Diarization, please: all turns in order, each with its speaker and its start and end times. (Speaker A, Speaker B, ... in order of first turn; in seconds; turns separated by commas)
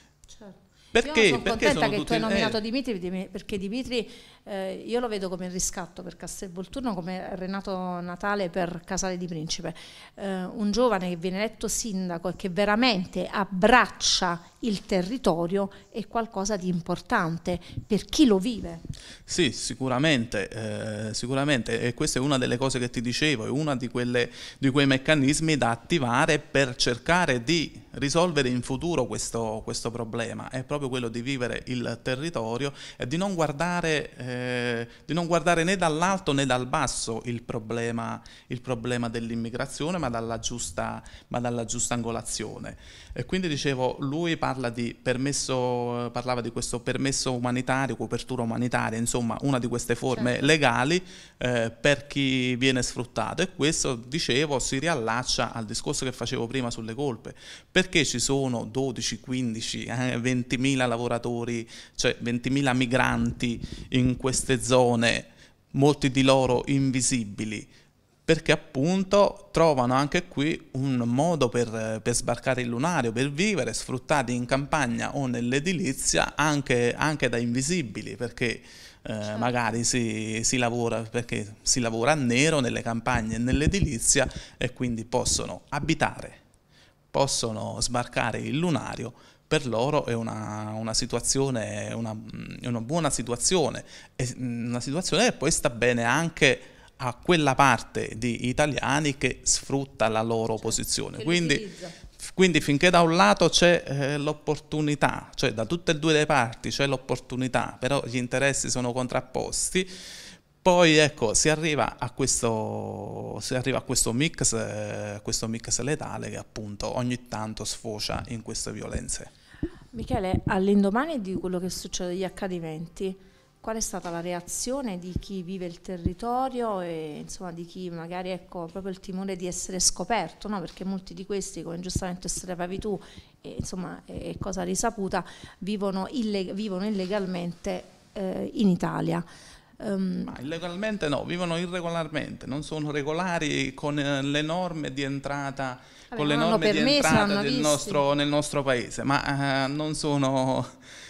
Speaker A: 0.3-18.8, Speaker B: 0.9-2.6, Speaker B: 19.3-67.7, Speaker A: 50.1-50.5, Speaker B: 68.3-86.4, Speaker A: 79.2-79.5, Speaker B: 87.1-101.6, Speaker A: 100.6-102.0, Speaker B: 102.2-109.9, Speaker B: 110.6-119.3, Speaker A: 119.9-139.3, Speaker A: 139.8-140.3, Speaker B: 140.2-150.7, Speaker A: 146.1-148.0